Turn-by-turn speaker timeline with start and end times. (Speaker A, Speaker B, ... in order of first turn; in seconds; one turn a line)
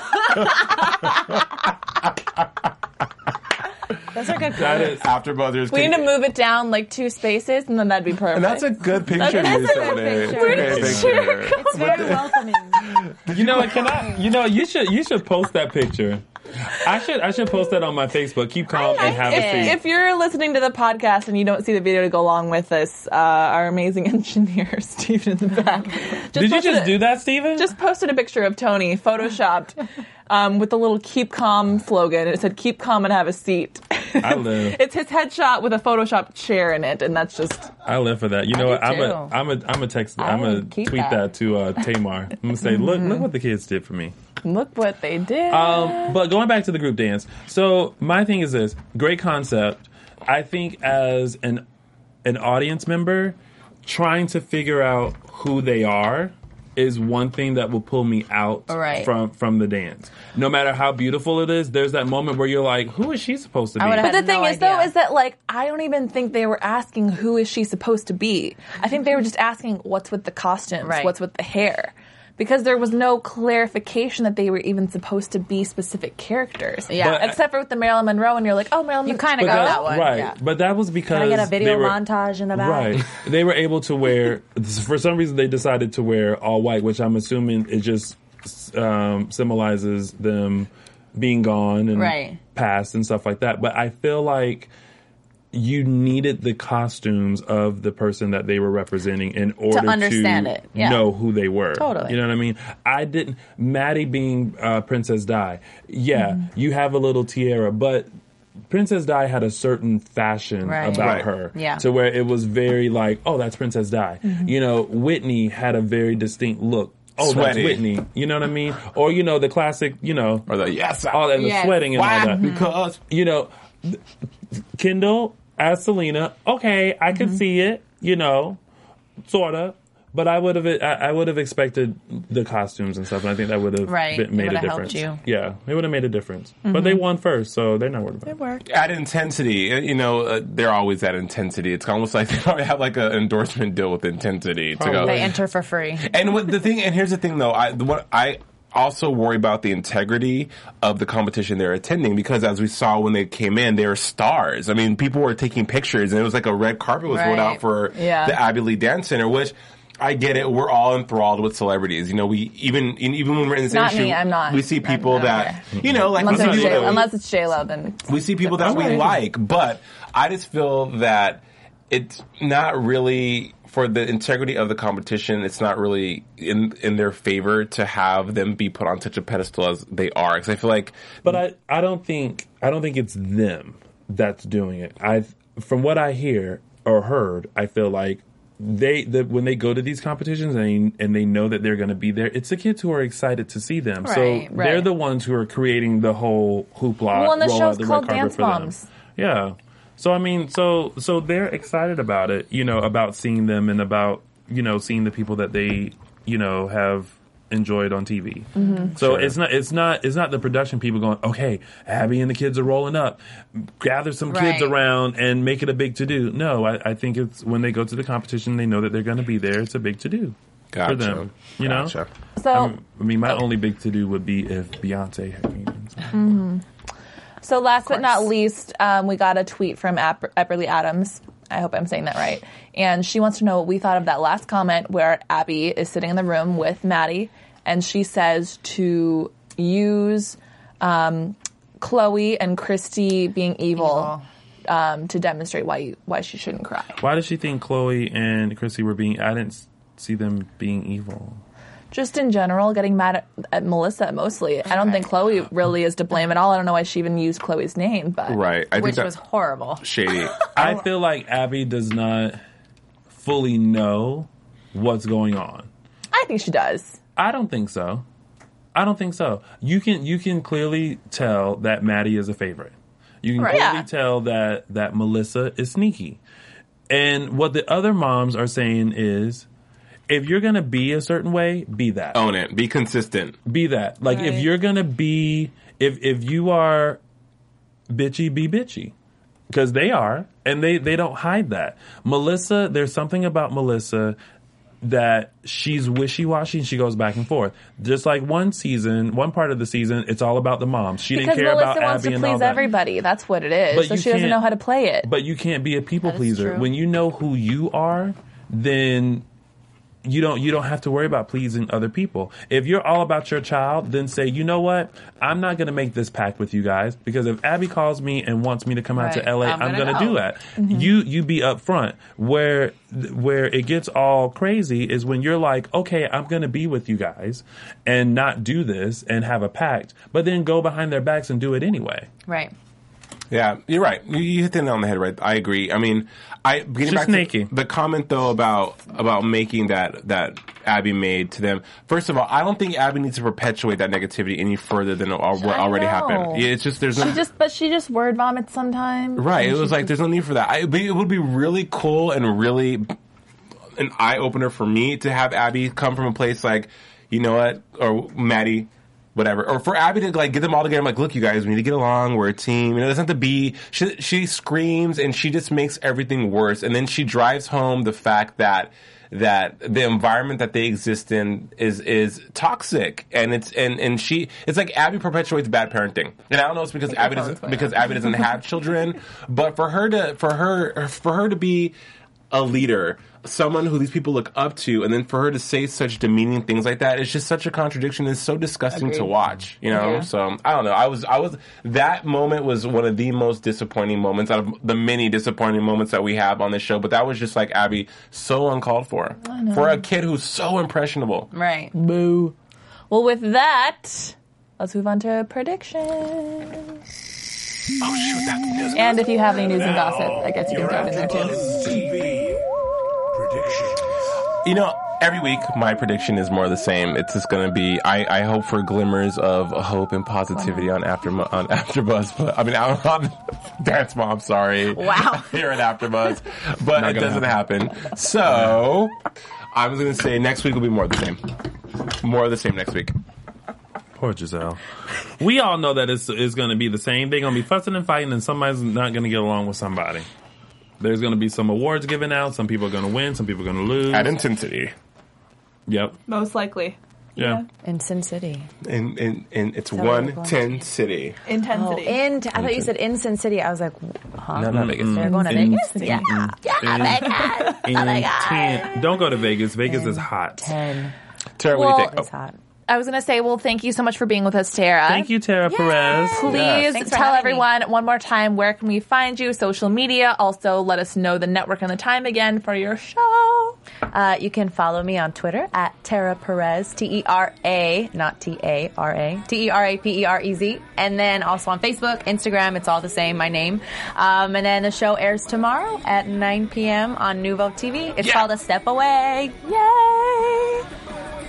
Speaker A: 0.3-0.9
Speaker A: 4.1-5.0
Speaker B: 4.5-5.1
Speaker C: 4.7-6.1
Speaker D: 5.7-12.2
Speaker C: 8.3-14.1
Speaker A: 9.1-12.9
Speaker B: 10.4-11.3
Speaker B: 13.3-19.8
Speaker A: 18.7-19.8
Speaker D: 18.7-29.8
Speaker B: 26.3-27.7
Speaker D: 30.3-37.7
Speaker B: 34.2-34.8
Speaker B: 37.9-44.1
Speaker A: 38.5-39.4
Speaker A: 40.2-41.3
Speaker D: 42.7-43.2
Speaker D: 44.4-46.2
Speaker B: 45.5-51.6
Speaker B: 52.2-64.1
Speaker A: 58.7-59.1
Speaker A: 63.8-64.9
Speaker D: 64.0-79.9
Speaker A: 70.8-71.1
Speaker A: 76.9-77.3
Speaker B: 77.0-77.4
Speaker A: 79.0-80.4
Speaker B: 79.4-82.0
Speaker A: 81.1-83.1
Speaker B: 82.5-94.7
Speaker A: 92.0-92.4
Speaker B: 95.5-108.1
Speaker A: 99.7-101.1
Speaker A: 101.8-102.2
Speaker B: 108.7-120.5
Speaker A: 110.6-111.8
Speaker C: 110.9-111.3
Speaker C: 117.2-117.8
Speaker C: 120.5-123.0
Speaker B: 121.1-122.5
Speaker A: 121.3-121.8
Speaker A: 122.4-122.7
Speaker B: 123.0-124.0
Speaker B: 124.8-128.6
Speaker B: 129.2-138.3
Speaker A: 133.8-135.2
Speaker A: 136.7-137.0
Speaker A: 138.3-138.6
Speaker C: 138.7-145.3
Speaker B: 144.8-145.4
Speaker A: 145.0-146.1
Speaker C: 146.0-167.1
Speaker A: 157.1-157.6
Speaker D: 157.9-158.4
Speaker D: 163.6-165.6
Speaker A: 165.0-165.5
Speaker B: 165.8-167.1
Speaker D: 166.1-169.1
Speaker C: 168.1-181.2
Speaker B: 168.6-169.2
Speaker B: 181.2-221.9
Speaker A: 194.0-194.9
Speaker D: 197.1-198.9
Speaker D: 208.6-208.9
Speaker A: 208.6-208.9
Speaker C: 209.0-209.4
Speaker A: 214.3-214.8
Speaker C: 220.7-222.1
Speaker D: 222.4-222.8
Speaker B: 222.5-226.3
Speaker D: 226.1-226.6
Speaker D: 227.4-244.1
Speaker A: 227.9-228.2
Speaker A: 243.8-244.2
Speaker D: 244.7-247.0
Speaker B: 247.0-251.4
Speaker D: 251.9-258.4
Speaker A: 254.7-255.1
Speaker C: 258.3-259.1
Speaker A: 258.7-259.9
Speaker C: 259.8-260.4
Speaker A: 260.4-260.8
Speaker B: 260.6-262.4
Speaker B: 263.1-265.7
Speaker D: 266.1-267.0
Speaker B: 267.2-268.1
Speaker B: 268.8-276.2
Speaker A: 273.4-273.6
Speaker D: 273.4-273.9
Speaker B: 276.9-279.5
Speaker B: 280.1-282.2
Speaker C: 282.1-283.4
Speaker B: 283.5-287.0
Speaker D: 284.1-284.4
Speaker B: 287.9-288.9
Speaker B: 289.5-294.2
Speaker B: 294.8-302.6
Speaker D: 301.1-305.1
Speaker B: 303.7-304.5
Speaker B: 305.0-309.3
Speaker A: 306.0-306.7
Speaker B: 310.0-332.1
Speaker A: 319.0-320.2
Speaker D: 320.6-320.9
Speaker A: 332.3-332.5
Speaker C: 333.3-347.2
Speaker B: 336.8-337.5
Speaker D: 345.4-349.9
Speaker C: 349.2-352.9
Speaker C: 353.8-381.8
Speaker D: 377.1-377.9
Speaker C: 382.3-401.3
Speaker A: 388.7-389.1
Speaker A: 389.7-390.1
Speaker D: 389.7-390.1
Speaker D: 399.2-399.8
Speaker A: 401.3-401.7
Speaker D: 401.7-402.3
Speaker D: 402.9-406.6
Speaker C: 407.8-409.2
Speaker D: 408.7-411.8
Speaker E: 409.5-412.4
Speaker E: 413.1-413.9
Speaker C: 414.4-429.0
Speaker A: 424.8-425.4
Speaker B: 426.8-427.4
Speaker B: 428.3-428.6
Speaker C: 429.5-431.3
Speaker C: 431.9-432.9
Speaker B: 434.0-434.6
Speaker B: 435.2-440.1
Speaker B: 440.8-444.2
Speaker C: 443.9-444.7
Speaker B: 445.7-446.0
Speaker D: 446.1-447.5
Speaker B: 447.2-447.4
Speaker A: 447.6-448.5
Speaker C: 448.6-451.2
Speaker A: 449.7-450.6
Speaker D: 451.3-452.0
Speaker A: 451.5-458.8
Speaker C: 452.4-452.7
Speaker C: 454.3-455.2
Speaker B: 454.5-460.6
Speaker D: 455.0-456.1
Speaker A: 459.6-460.9
Speaker C: 461.4-462.1
Speaker D: 461.5-462.0
Speaker A: 461.8-462.4
Speaker D: 462.7-465.1
Speaker B: 464.9-466.3
Speaker A: 465.5-467.5
Speaker D: 466.1-473.6
Speaker C: 466.3-466.7
Speaker A: 473.9-490.6
Speaker D: 489.6-490.4